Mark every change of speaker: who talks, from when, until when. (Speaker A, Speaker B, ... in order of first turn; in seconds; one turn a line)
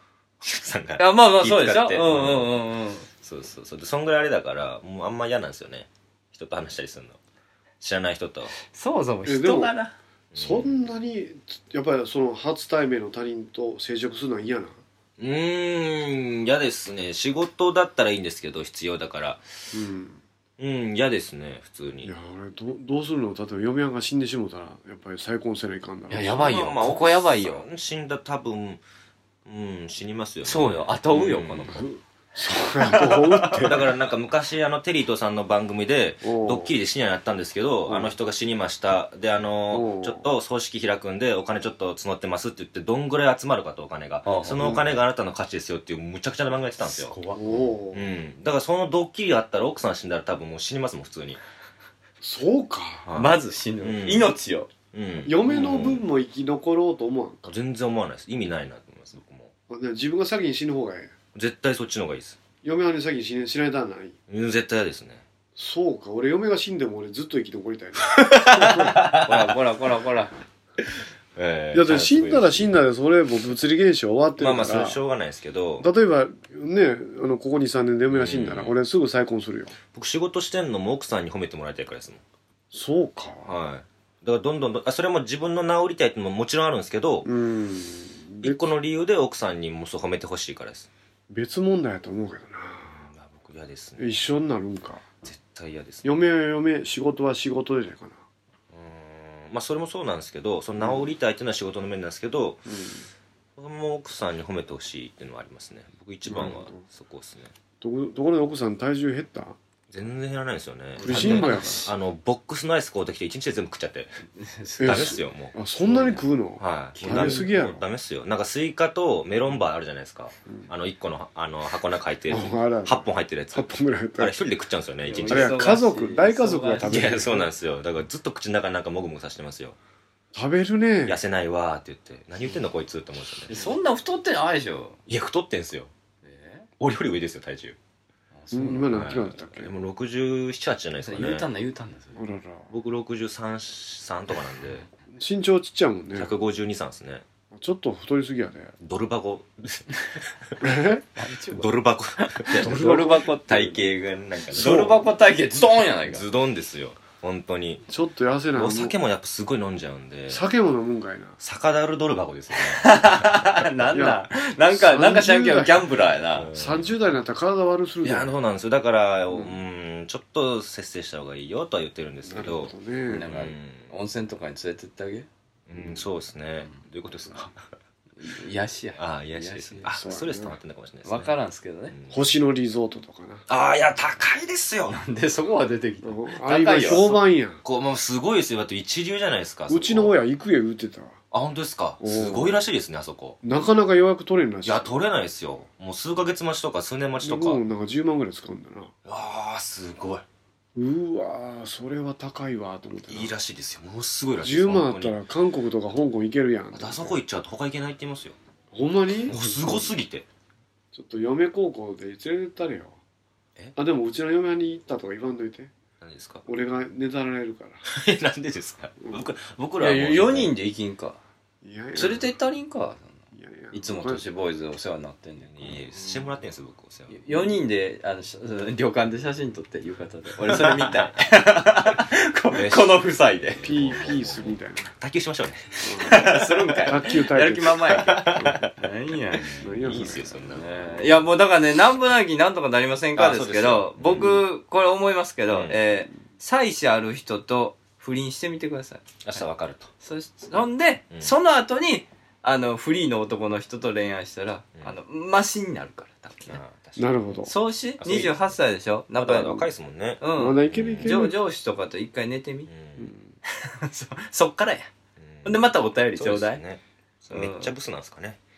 Speaker A: 0.4-2.6
Speaker B: 1.0-3.1
Speaker A: 3.2-7.2
Speaker A: 7.8-8.5
Speaker B: 8.6-9.9
Speaker C: 9.2-9.8
Speaker A: 10.3-10.7
Speaker C: 10.3-14.8
Speaker A: 15.2-19.5
Speaker C: 19.7-20.2
Speaker A: 20.6-22.1
Speaker C: 22.0-26.5
Speaker B: 26.1-27.6
Speaker A: 26.3-28.8
Speaker A: 29.4-31.9
Speaker B: 30.4-31.9
Speaker C: 31.7-33.9
Speaker A: 33.5-51.4
Speaker C: 36.2-36.7
Speaker C: 37.9-38.1
Speaker C: 39.7-40.3
Speaker B: 44.2-44.7
Speaker C: 44.5-45.0
Speaker B: 46.8-47.6
Speaker C: 47.3-48.1
Speaker C: 52.2-53.1
Speaker A: 53.1-54.3
Speaker B: 53.1-54.7
Speaker A: 54.9-56.0
Speaker C: 55.2-57.5
Speaker A: 57.5-59.5
Speaker C: 59.7-61.1
Speaker A: 61.4-62.4
Speaker C: 62.6-64.2
Speaker A: 64.3-65.2
Speaker C: 65.6-69.1
Speaker B: 68.5-70.3
Speaker A: 69.1-69.5
Speaker A: 71.4-72.8
Speaker C: 71.7-75.0
Speaker A: 74.4-75.9
Speaker C: 75.8-79.8
Speaker A: 78.1-78.8
Speaker A: 79.9-82.2
Speaker C: 82.7-83.6
Speaker A: 83.5-87.3
Speaker C: 87.2-88.7
Speaker A: 88.4-90.9
Speaker C: 91.3-93.0
Speaker A: 92.9-94.1
Speaker C: 94.0-95.0
Speaker A: 95.2-96.1
Speaker C: 96.0-98.2
Speaker A: 98.7-102.7
Speaker C: 100.8-101.1
Speaker C: 102.7-103.1
Speaker A: 103.6-107.5
Speaker C: 106.2-106.8
Speaker C: 107.8-109.6
Speaker A: 109.9-114.2
Speaker B: 111.0-111.9
Speaker C: 111.0-111.9
Speaker B: 114.4-115.2
Speaker C: 114.8-117.8
Speaker A: 114.8-125.6
Speaker B: 117.0-117.5
Speaker C: 122.3-124.4
Speaker B: 125.1-127.2
Speaker C: 125.2-127.5
Speaker A: 126.9-129.8
Speaker C: 130.3-131.2
Speaker A: 131.1-133.6
Speaker B: 133.5-135.0
Speaker A: 135.1-135.9
Speaker B: 136.2-136.7
Speaker A: 136.8-137.8
Speaker B: 138.3-139.1
Speaker C: 138.5-139.7
Speaker A: 138.9-141.5
Speaker B: 141.0-142.2
Speaker C: 142.2-142.7
Speaker A: 142.7-144.9
Speaker C: 145.1-146.3
Speaker A: 146.2-147.3
Speaker C: 147.5-148.8
Speaker A: 148.8-150.7
Speaker C: 150.6-151.0
Speaker B: 151.2-153.9
Speaker A: 151.5-155.0
Speaker C: 152.5-153.3
Speaker B: 154.5-156.2
Speaker C: 154.6-155.0
Speaker A: 156.1-157.9
Speaker C: 157.9-159.0
Speaker A: 158.5-160.4
Speaker C: 160.3-161.4
Speaker A: 161.4-163.4
Speaker B: 162.6-166.5
Speaker C: 163.9-165.9
Speaker A: 166.3-166.9
Speaker C: 166.5-168.3
Speaker A: 168.0-173.9
Speaker C: 169.3-169.6
Speaker C: 172.3-173.3
Speaker B: 173.1-175.3
Speaker A: 175.7-177.6
Speaker B: 178.2-180.0
Speaker A: 179.0-181.3
Speaker C: 179.9-180.6
Speaker B: 181.1-181.9
Speaker A: 181.9-182.3
Speaker C: 182.1-183.4
Speaker A: 183.5-185.0
Speaker B: 184.9-187.2
Speaker C: 186.0-187.6
Speaker A: 187.6-190.2
Speaker C: 189.7-191.2
Speaker A: 191.3-193.4
Speaker C: 192.0-192.6
Speaker C: 193.4-194.9
Speaker A: 194.7-197.6
Speaker C: 197.2-198.9
Speaker A: 199.1-200.2
Speaker C: 200.8-203.3
Speaker A: 203.1-205.2
Speaker C: 204.4-207.2
Speaker A: 206.7-208.4
Speaker C: 208.7-209.9
Speaker A: 209.2-210.3
Speaker C: 210.9-213.0
Speaker C: 213.8-215.7
Speaker A: 216.0-216.4
Speaker C: 216.5-217.8
Speaker A: 217.9-220.5
Speaker C: 219.0-219.3
Speaker B: 219.8-221.2
Speaker C: 221.6-222.3
Speaker B: 221.9-223.2
Speaker C: 223.3-224.2
Speaker B: 223.7-225.5
Speaker A: 225.4-227.2
Speaker B: 227.1-233.7
Speaker A: 230.5-231.1
Speaker A: 232.5-236.3
Speaker C: 233.6-234.9
Speaker C: 235.8-238.7
Speaker B: 236.0-239.7
Speaker A: 238.1-238.7
Speaker A: 239.4-241.2
Speaker C: 239.6-240.5
Speaker B: 240.4-249.4
Speaker A: 243.2-244.4
Speaker A: 245.5-245.8
Speaker A: 249.2-249.9
Speaker B: 250.0-256.6
Speaker A: 256.5-257.4
Speaker C: 257.0-257.5
Speaker B: 257.5-259.7
Speaker A: 258.0-258.6
Speaker A: 259.2-261.3
Speaker B: 260.2-262.7
Speaker C: 260.3-261.4
Speaker A: 262.7-263.1
Speaker C: 263.0-263.3
Speaker B: 263.6-264.9
Speaker A: 265.2-268.4
Speaker B: 265.4-266.6
Speaker B: 267.3-267.7